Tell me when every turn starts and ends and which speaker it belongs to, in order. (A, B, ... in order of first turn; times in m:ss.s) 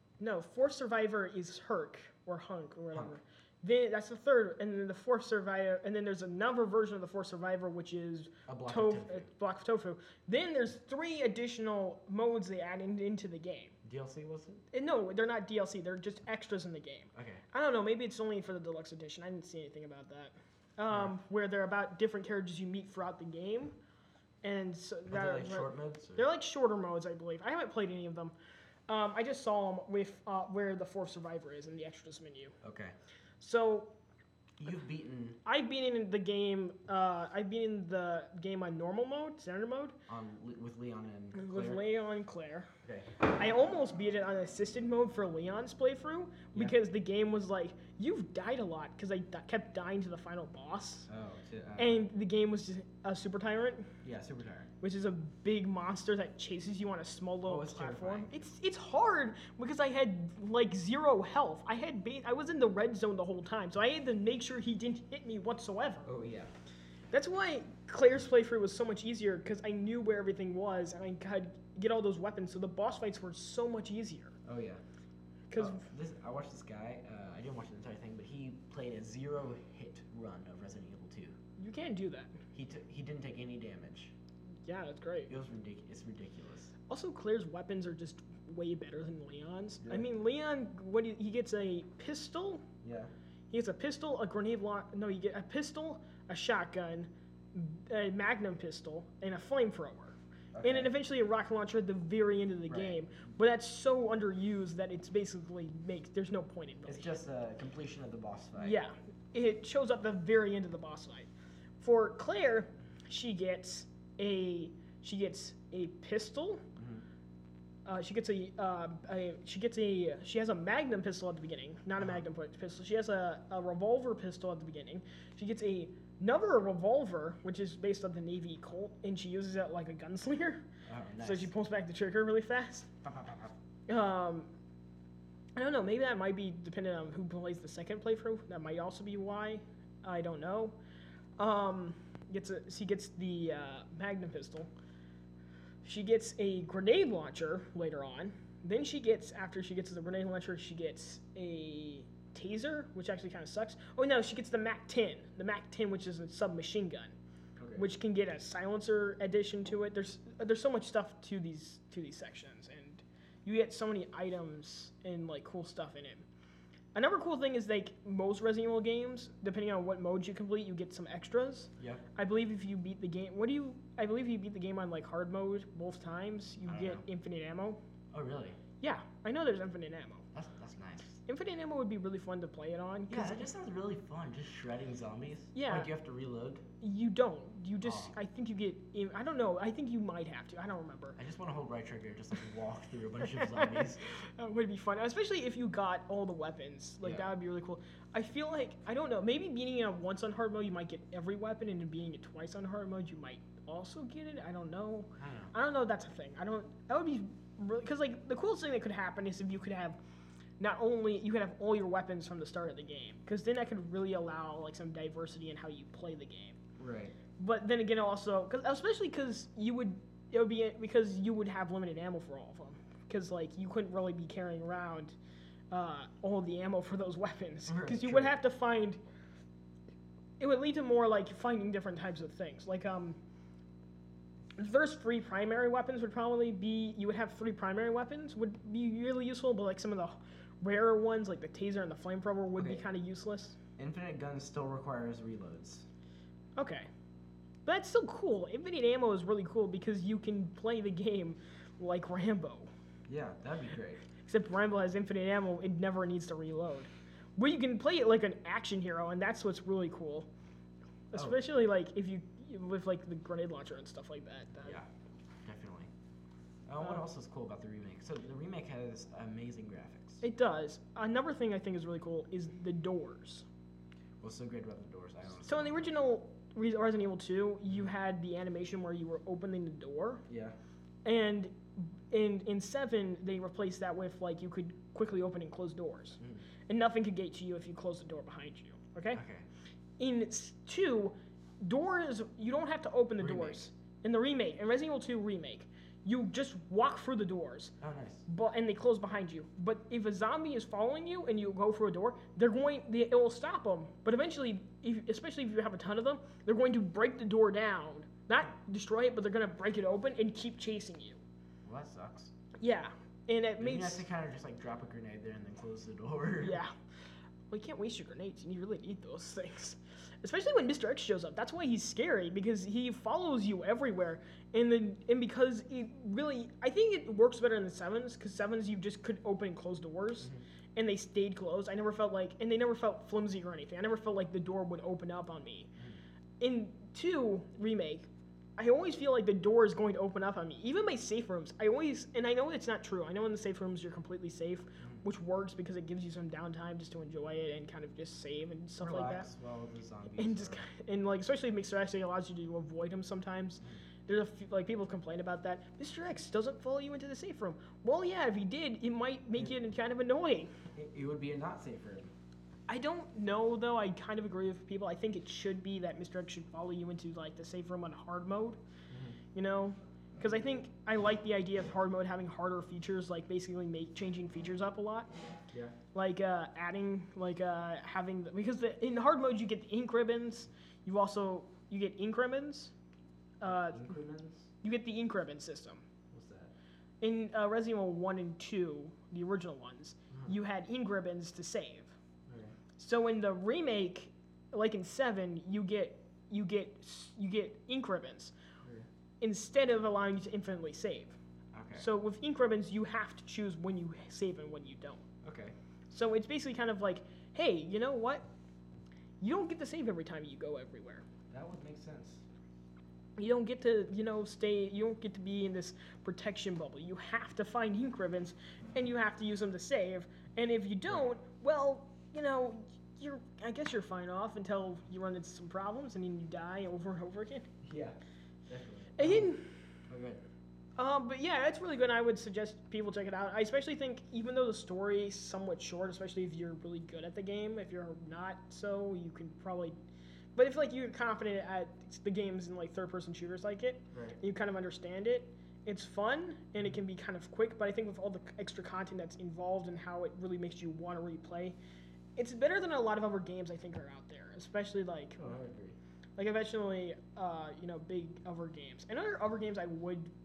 0:00.2-0:13.8 A
0:08.5-0:09.3 B
0:13.8-0:14.6 B
0:14.7-0:23.8 A
0:17.1-0:17.4 B
0:24.4-0:28.4 A
0:25.1-0:26.3 B
0:28.9-0:32.6 A
0:32.6-0:33.0 B
0:33.4-0:34.0 A
0:34.6-0:35.4 B
0:35.4-0:40.0 A
0:40.1-0:41.8 B
0:41.3-0:51.1 A
0:42.8-0:43.2 B
0:51.1-0:52.0 B
0:51.8-0:53.9 A
0:54.0-0:54.7 B
0:54.8-1:06.1 A
0:57.5-0:58.4 B
1:06.1-1:06.5 B
1:07.1-1:14.4 A
1:14.4-1:14.8 B
1:15.5-1:15.8 A
1:15.6-1:21.4 B
1:21.6-1:22.4 A
1:22.5-1:24.1 B
1:24.6-1:25.3 A
1:25.3-1:26.7 B
1:26.9-1:32.7 A
1:32.8-1:33.1 B
1:33.5-1:47.1 A
1:40.5-1:40.9 B
1:42.7-1:43.0 B
1:46.9-1:48.8 B
1:48.6-1:56.6 A
1:56.8-1:57.0 B
1:57.8-2:10.7 A
2:10.9-2:11.5 B
2:11.2-2:12.9 A
2:13.0-2:13.6 B
2:13.9-2:14.5 A
2:15.6-2:20.8 A
2:21.4-2:24.7 A
2:25.8-2:37.2 A
2:37.6-2:37.9 B
2:37.8-2:46.3 A
2:46.9-2:57.8 A
2:51.8-2:52.0 B
2:56.7-2:57.0 B
2:58.1-2:58.6 B
2:58.8-3:00.3 A
3:00.3-3:01.2 B
3:01.3-3:03.5 A
3:03.1-3:06.7 B
3:05.6-3:05.9 A
3:06.8-3:11.2 A
3:07.8-3:08.1 B
3:11.2-3:14.0 B
3:13.4-3:30.0 A
3:25.2-3:25.5 B
3:30.6-3:36.6 A
3:36.8-3:37.2 B
3:37.4-3:45.2 A
3:45.7-3:49.0 A
3:47.7-3:48.4 B
3:50.4-3:53.2 A
3:54.6-4:03.6 A
4:02.6-4:02.8 B
4:03.8-4:05.9 B
4:06.6-4:06.9 A
4:07.6-4:12.7 A
4:13.1-4:14.1 B
4:14.2-4:20.3 A
4:21.1-4:24.8 A
4:21.2-4:21.4 B
4:25.4-4:25.9 B
4:26.7-4:30.2 B
4:30.2-4:33.5 A
4:34.2-4:35.9 B
4:35.4-4:40.2 A
4:40.3-4:40.6 B
4:41.0-4:49.2 A
4:49.1-4:49.4 B
4:50.0-4:57.7 A
4:53.2-4:53.6 B
4:57.8-4:58.2 B
4:58.3-5:11.2 A
5:11.6-5:12.3 B
5:12.6-5:14.1 A
5:13.6-5:16.6 B
5:16.4-5:16.8 A
5:17.5-5:35.7 A
5:36.4-5:49.3 A
5:48.8-5:50.7 B
5:50.2-6:00.5 A
6:00.8-6:02.1 B
6:02.7-6:08.6 A
6:08.9-6:09.2 B
6:09.3-6:15.1 A
6:15.9-6:22.7 A
6:23.4-6:23.9 A
6:23.4-6:24.5 B
6:24.6-6:25.9 A
6:26.1-6:26.5 B
6:27.0-6:31.9 A
6:32.3-6:32.6 B
6:32.8-6:38.3 A
6:39.2-6:41.2 A
6:41.5-6:41.9 B
6:41.8-6:45.0 A
6:45.2-6:45.6 B
6:45.9-6:48.3 A
6:49.2-6:51.0 A
6:51.3-6:52.2 B
6:53.2-7:07.5 A
7:07.6-7:08.0 B
7:08.5-7:09.4 B
7:09.0-7:09.5 A
7:09.9-7:10.2 B
7:10.8-7:19.7 A
7:20.4-7:31.6 A
7:23.9-7:24.2 B
7:32.2-7:35.2 A
7:35.2-7:35.8 B
7:36.2-7:40.1 A